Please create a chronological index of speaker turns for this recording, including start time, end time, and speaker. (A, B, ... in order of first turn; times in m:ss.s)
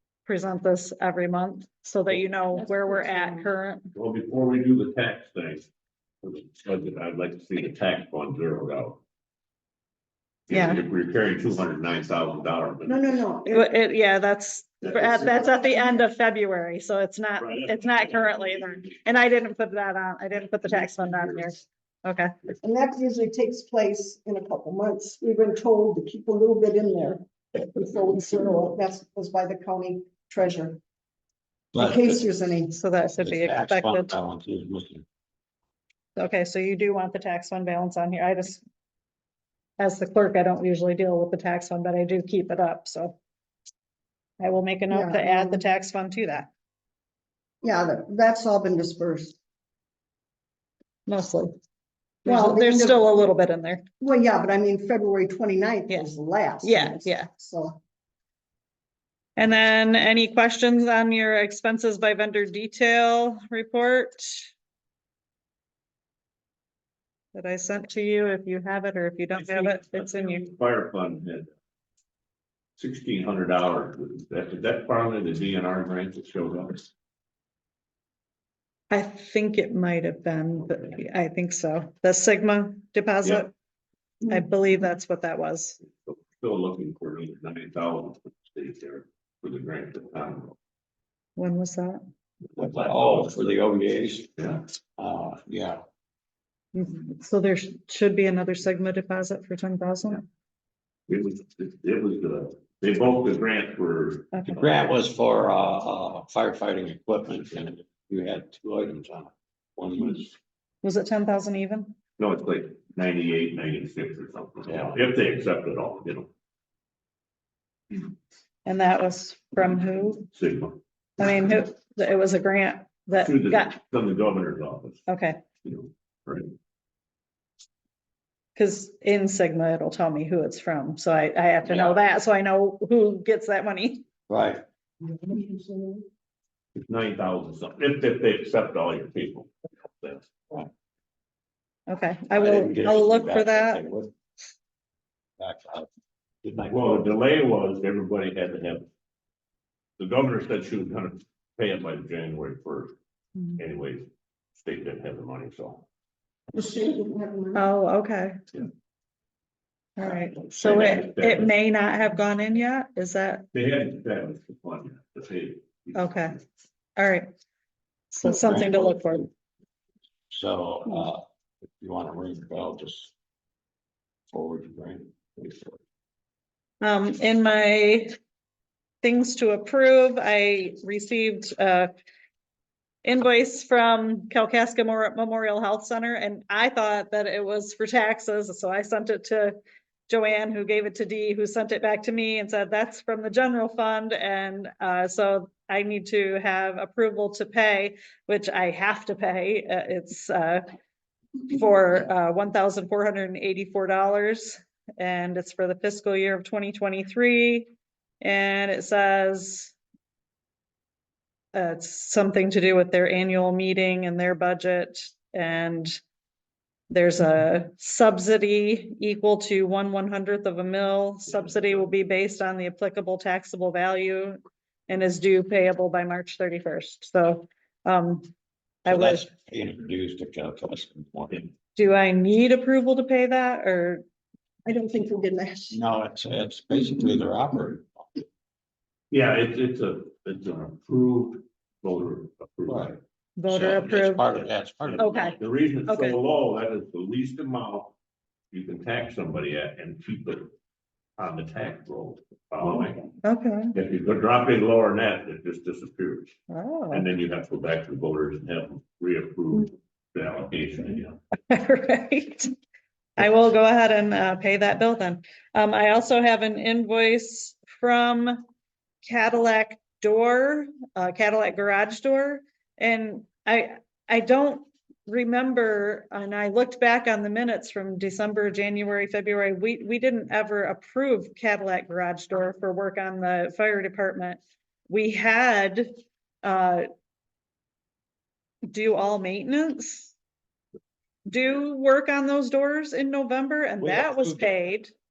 0:00.2-0:03.9 A
0:02.6-0:03.0 B
0:03.9-0:05.7 C
0:06.2-0:09.0 C
0:10.5-0:13.1 C
0:10.5-0:10.8 A
0:12.8-0:13.7 B
0:13.5-0:22.3 A
0:14.8-0:15.2 C
0:14.9-0:15.8 B
0:17.4-0:18.8 C
0:20.7-0:21.4 C
0:22.6-0:30.8 B
0:31.7-0:32.2 D
0:31.7-0:32.7 B
0:32.7-0:34.2 A
0:33.2-0:35.0 D
0:36.2-0:38.6 A
0:39.8-0:43.2 A
0:44.4-0:46.5 A
0:44.9-0:45.6 B
0:47.6-0:49.4 B
0:51.1-0:51.5 A
0:52.2-0:53.0 B
0:52.2-0:53.8 A
0:54.0-0:57.8 B
0:56.6-0:57.3 A
0:59.4-1:04.5 A
1:07.3-1:10.5 A
1:09.4-1:11.5 C
1:12.8-1:16.9 C
1:18.9-1:23.5 A
1:24.3-1:25.8 A
1:26.0-1:30.6 C
1:31.4-1:32.0 A
1:32.5-1:33.7 C
1:32.6-1:34.3 D
1:34.4-1:34.6 C
1:35.0-1:35.8 D
1:36.7-1:40.2 A
1:41.1-1:44.4 C
1:44.3-1:44.6 A
1:44.4-1:50.4 D
1:50.8-1:51.9 A
1:52.2-1:56.3 C
1:54.7-1:54.9 D
1:58.6-2:00.3 A
2:00.3-2:00.8 C
2:01.2-2:03.7 A
2:03.1-2:05.0 C
2:05.1-2:05.4 A
2:05.6-2:06.5 C
2:08.5-2:14.0 A
2:14.3-2:14.6 D
2:15.0-2:16.1 B
2:16.7-2:20.3 C
2:21.9-2:23.8 A
2:22.3-2:24.1 D
2:25.4-2:25.9 D
2:26.4-2:27.1 D
2:26.7-2:28.8 C
2:30.0-2:33.0 C
2:33.6-2:35.8 C
2:36.5-2:37.6 B
2:37.5-2:38.4 A
2:40.0-2:43.5 A
2:40.0-2:41.5 C
2:43.5-2:46.1 C
2:45.9-2:46.4 A
2:47.0-2:47.3 A
2:48.1-2:49.3 A
2:48.2-2:49.2 D
2:50.3-2:53.1 D
2:54.3-2:55.8 D
2:56.8-2:58.1 A
2:59.0-3:01.9 A
3:03.0-3:20.6 A
3:21.5-3:27.7 A
3:28.2-3:29.7 A
3:31.5-3:35.9 A
3:36.9-3:48.3 A
3:41.3-3:41.8 C
3:48.8-3:49.2 A
3:48.8-3:51.5 D
3:51.7-3:54.0 A
3:54.6-3:55.8 B
3:55.7-3:58.2 D
3:59.1-4:03.0 C
4:02.7-4:02.9 D
4:03.4-4:04.2 A
4:03.5-4:05.3 D
4:04.8-4:07.9 C
4:05.0-4:05.3 A
4:05.9-4:06.2 A
4:08.5-4:10.5 C
4:11.2-4:13.0 C
4:13.2-4:13.7 A
4:13.7-4:16.3 C
4:16.5-4:17.0 A
4:16.9-4:21.2 C
4:21.5-4:22.5 A
4:23.2-4:28.4 A
4:29.0-4:45.9 A
4:46.4-4:46.9 A
4:48.7-4:50.1 A
4:51.3-4:54.9 A
4:53.8-4:54.5 D